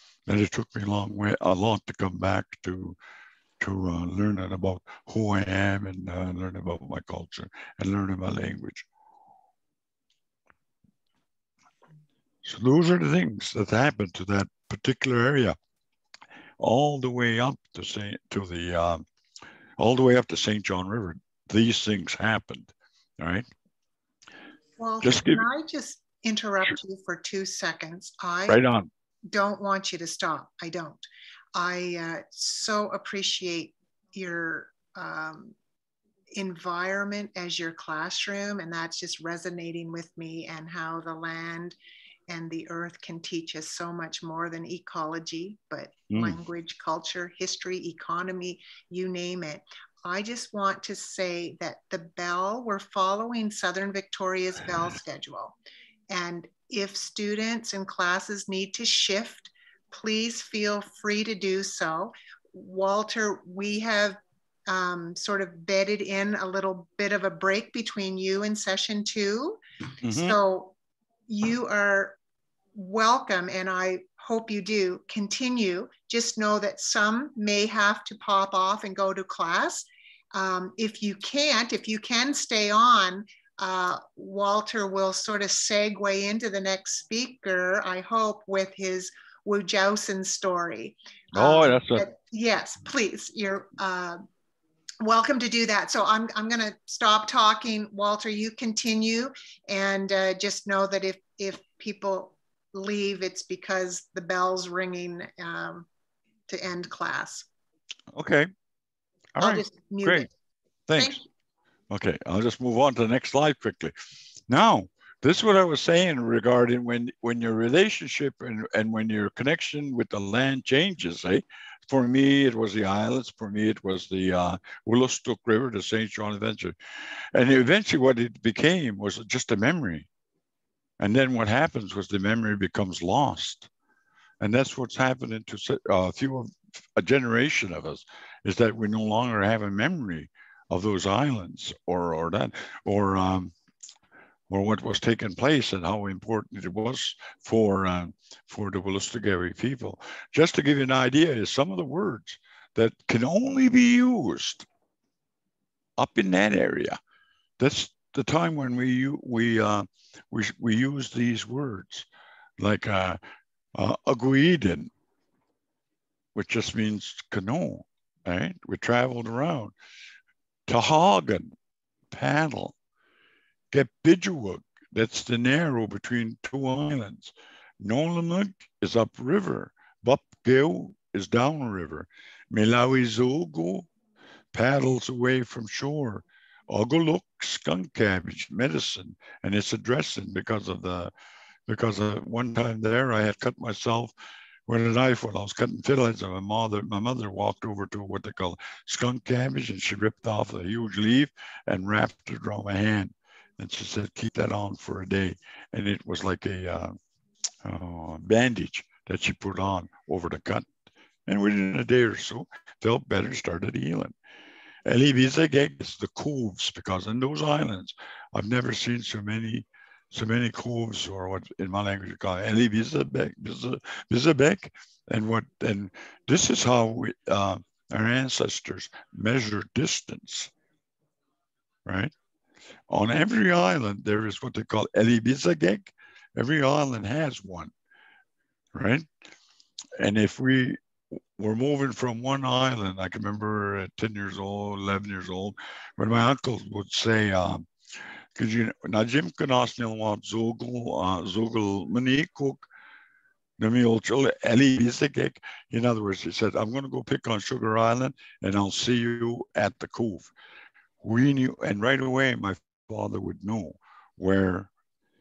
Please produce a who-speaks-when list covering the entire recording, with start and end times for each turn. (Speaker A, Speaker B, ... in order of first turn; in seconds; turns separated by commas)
Speaker A: 0.3-3.0, Speaker A: 3.6-8.9, Speaker A: 12.4-15.6, Speaker A: 16.6-19.0, Speaker A: 19.8-23.5, Speaker B: 24.8-28.6, Speaker A: 25.0-25.4, Speaker A: 28.5-28.9, Speaker B: 29.3-31.0, Speaker B: 31.6-35.5, Speaker B: 36.3-41.8, Speaker B: 42.3-55.6, Speaker A: 46.1-46.4, Speaker B: 56.1-70.8, Speaker A: 70.0-70.4, Speaker B: 71.3-72.2, Speaker B: 72.8-94.2, Speaker A: 91.3-92.1, Speaker B: 95.0-105.9, Speaker B: 106.5-107.5, Speaker A: 108.1-108.5, Speaker A: 109.4-110.3, Speaker B: 109.4-110.3, Speaker A: 110.9-111.2, Speaker B: 111.0-111.2, Speaker A: 111.9-113.9, Speaker A: 114.5-126.8, Speaker A: 127.3-130.1, Speaker A: 131.0-133.7, Speaker A: 134.4-143.5, Speaker A: 144.5-154.7, Speaker A: 156.0-157.0, Speaker A: 157.6-162.1, Speaker A: 162.6-163.2, Speaker A: 163.8-164.9, Speaker A: 166.3-169.7, Speaker A: 170.7-171.5, Speaker A: 172.1-172.8, Speaker A: 173.7-183.9, Speaker A: 184.5-191.1, Speaker A: 191.7-194.1, Speaker A: 194.7-207.0, Speaker A: 207.6-210.7, Speaker A: 211.3-214.1, Speaker A: 214.8-230.5, Speaker A: 231.8-232.1, Speaker A: 232.9-237.7, Speaker A: 238.7-239.1, Speaker A: 240.0-247.7, Speaker A: 248.3-252.6, Speaker A: 253.6-260.3, Speaker A: 261.0-264.7